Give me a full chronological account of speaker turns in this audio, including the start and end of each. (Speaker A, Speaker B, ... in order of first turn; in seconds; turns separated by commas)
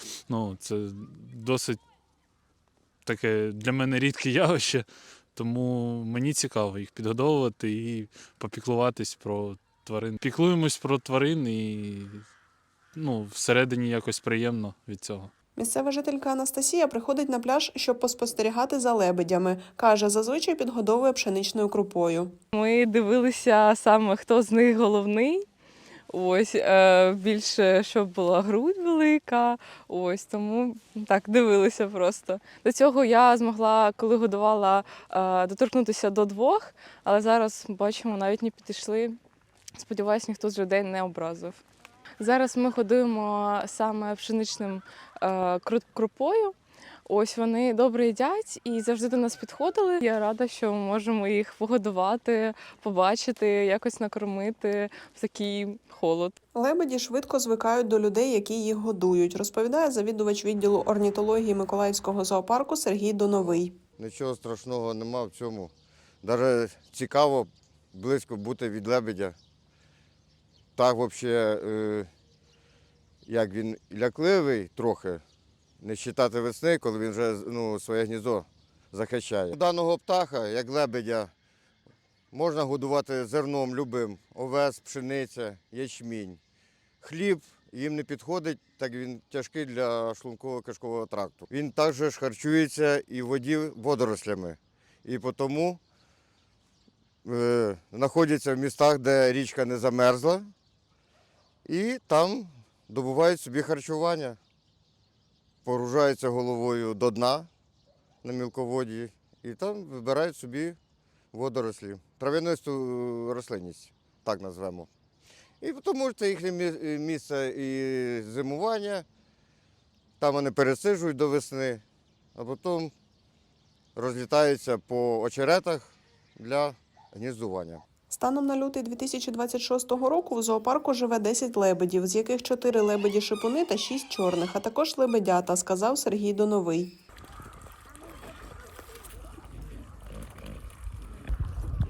Speaker A: 0.3-1.8, Speaker A: 3.0-12.2, Speaker A: 12.9-15.3, Speaker B: 15.6-22.3, Speaker C: 22.5-25.4, Speaker C: 26.1-39.2, Speaker C: 39.8-41.6, Speaker C: 42.2-46.5, Speaker C: 47.1-56.4, Speaker B: 56.5-63.7, Speaker D: 63.5-65.7, Speaker D: 66.2-69.3, Speaker D: 70.8-72.1, Speaker D: 73.2-75.2, Speaker D: 75.8-81.3, Speaker D: 82.3-86.4, Speaker D: 87.0-95.8, Speaker D: 97.2-100.5, Speaker D: 101.7-104.4, Speaker D: 105.6-107.5, Speaker D: 108.2-110.8, Speaker D: 111.3-114.9, Speaker D: 115.6-119.0, Speaker D: 120.2-121.8, Speaker D: 122.3-122.9, Speaker D: 123.9-127.8, Speaker B: 128.1-136.9